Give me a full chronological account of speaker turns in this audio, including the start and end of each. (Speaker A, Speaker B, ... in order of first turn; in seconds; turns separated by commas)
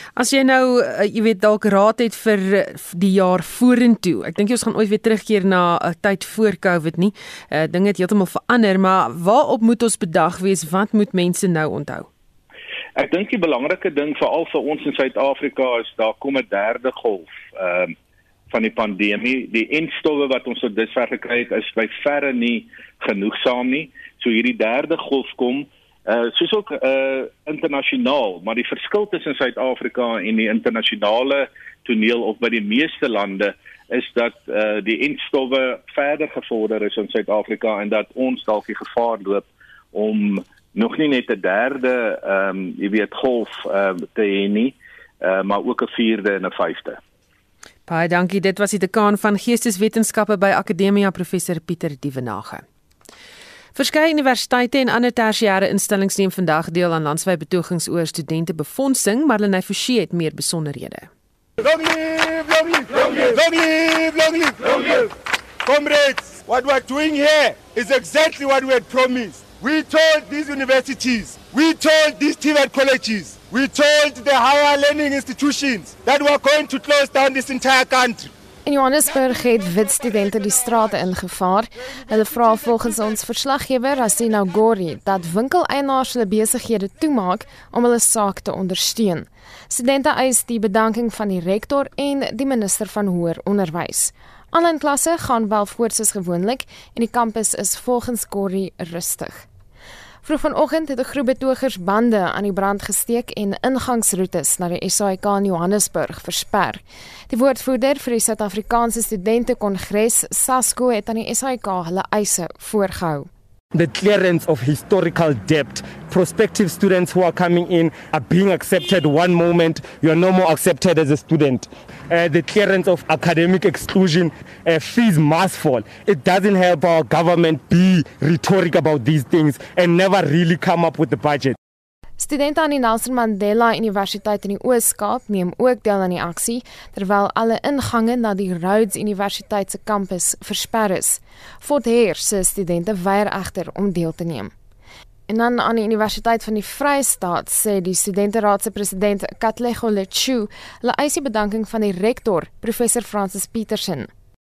Speaker A: 0.2-12.1, Speaker B: 13.0-17.9, Speaker B: 18.5-47.0, Speaker A: 47.9-52.6, Speaker A: 53.8-61.1, Speaker C: 61.6-65.1, Speaker C: 65.6-78.3, Speaker D: 78.7-99.5, Speaker D: 100.2-113.3, Speaker E: 113.7-131.6, Speaker D: 132.2-144.5, Speaker D: 145.3-154.1